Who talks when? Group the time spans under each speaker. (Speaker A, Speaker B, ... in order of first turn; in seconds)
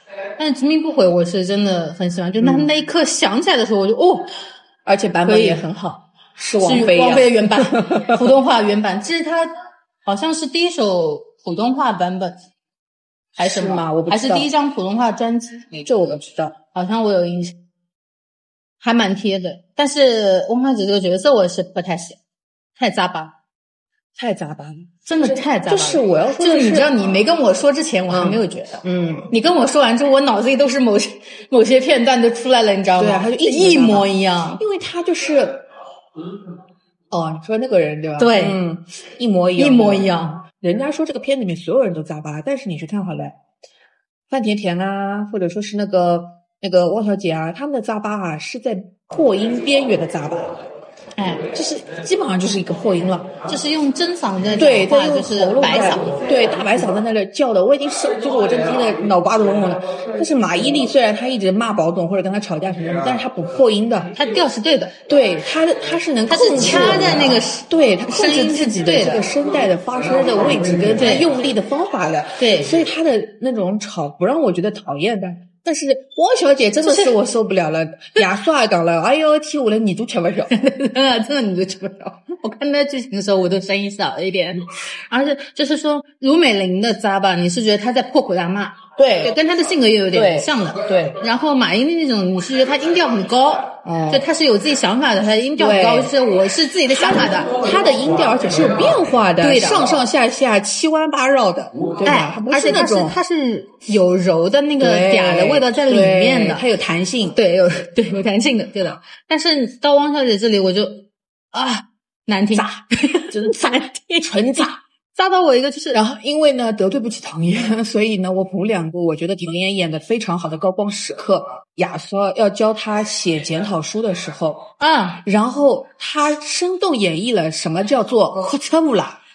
Speaker A: 0.4-4.3, 5.2-5.6, 6.6-12.4, 13.4-15.9, 16.7-17.6, 18.8-22.2, 22.8-23.3, 25.1-34.6, 38.2-38.6, 39.6-40.4, 51.2-51.5, 53.5-56.2, 64.1-64.9, 66.3-69.2, 71.0-71.3, 72.4-72.7, 76.8-77.2, 80.5-97.6, 99.4-100.0, 102.0-106.6, 107.3-114.3, 115.1-116.0, 124.8-125.2
Speaker B: 2.4-2.7, 4.8-8.3, 13.4-14.5, 15.8-16.5, 24.2-26.9, 28.1-29.3, 33.0-35.7, 37.1-43.4, 44.3-50.6, 51.5-53.3, 54.5-64.1, 65.1-80.5, 89.0-89.3, 90.1-91.2, 93.8-94.2, 95.6-96.1, 97.0-103.2, 104.8-107.3, 112.5-113.6, 114.2-114.8, 115.9-124.7, 125.2-129.2